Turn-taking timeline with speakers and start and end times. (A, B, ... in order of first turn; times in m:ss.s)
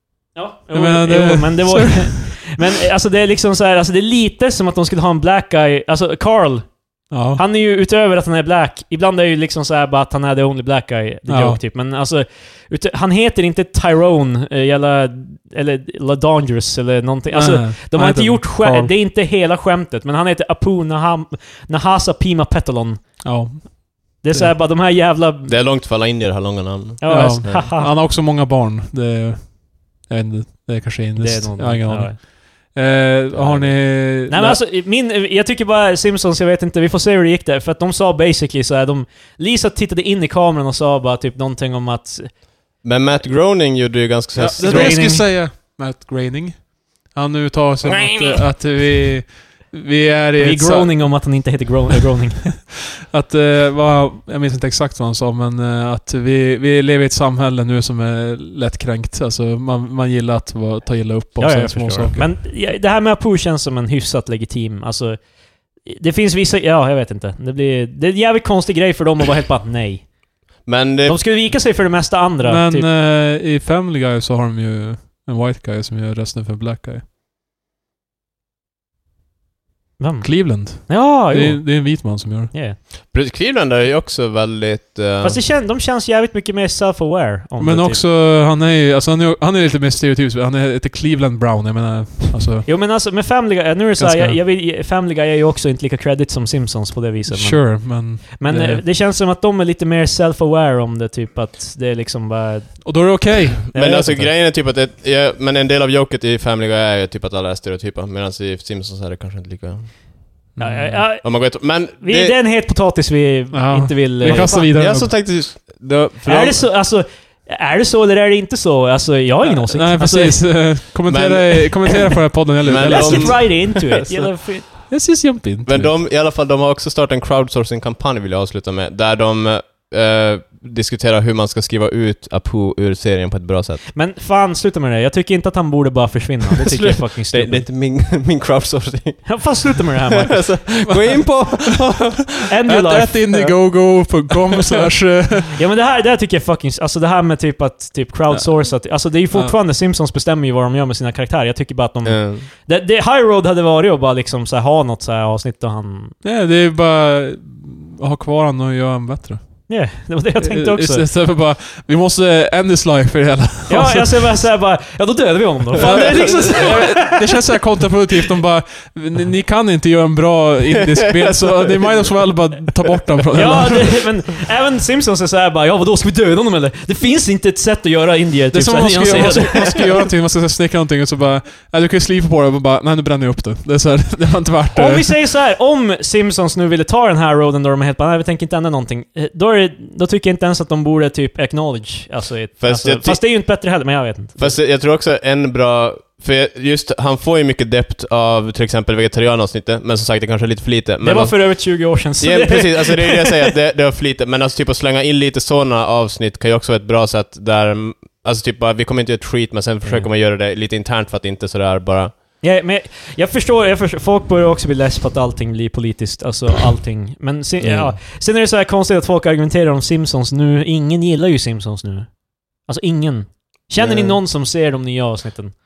0:00.3-0:23.2 A
0:00.7-0:02.5 B
0:07.1-0:07.4 B
0:11.3-0:11.6 B
0:17.3-0:18.9 B
0:23.2-0:24.5 B
0:24.2-0:25.6 A
0:25.5-0:27.7 C
0:27.0-0:27.9 A
0:27.1-0:34.6 B
0:31.2-0:32.2 A
0:33.3-0:33.8 C
0:34.3-0:42.4 A
0:42.8-0:45.2 C
0:44.4-0:51.2 B
0:44.6-0:45.3 A
0:50.4-0:52.7 A
0:53.1-1:02.3 B
1:01.4-1:10.1 A
1:10.6-1:11.2 C
1:11.0-1:12.9 A
1:12.4-1:17.0 B
1:20.0-1:22.8 A
1:20.2-1:22.5 B
1:23.0-1:25.4 C
1:25.2-1:28.0 A
1:27.6-1:32.7 B
1:32.6-1:44.3 A
1:34.0-1:34.4 B
1:37.3-1:38.8 B
1:42.8-1:43.7 B
1:43.7-1:50.2 C
1:50.5-1:51.0 B
1:50.6-1:54.7 A
1:51.2-1:52.4 C
1:53.5-1:55.1 B
1:54.2-1:56.7 C
1:56.2-2:00.8 A
1:59.5-2:03.5 B
2:01.1-2:02.0 C
2:02.6-2:04.3 C
2:02.7-2:04.7 A
2:04.9-2:05.9 B
2:05.6-2:13.8 C
2:13.9-2:17.6 A
2:16.6-2:22.5 C
2:19.2-2:20.8 A
2:20.8-2:21.6 B
2:22.5-2:23.4 A
2:22.7-2:25.6 B
2:23.3-2:23.6 C
2:25.5-2:36.2 A
2:28.3-2:29.6 B
2:32.0-2:32.5 C
2:36.2-2:39.7 B
2:39.7-2:41.1 A
2:40.4-2:44.2 B
2:43.7-2:47.4 A
2:45.8-2:54.0 B
2:51.0-2:52.1 C
2:53.3-2:59.9 A
2:58.5-3:05.1 B
3:04.7-3:14.6 A
3:12.6-3:13.2 C
3:14.4-3:32.1 C
3:21.0-3:23.5 A
3:32.4-3:45.5 A
3:37.6-3:38.0 C
3:43.8-3:44.2 C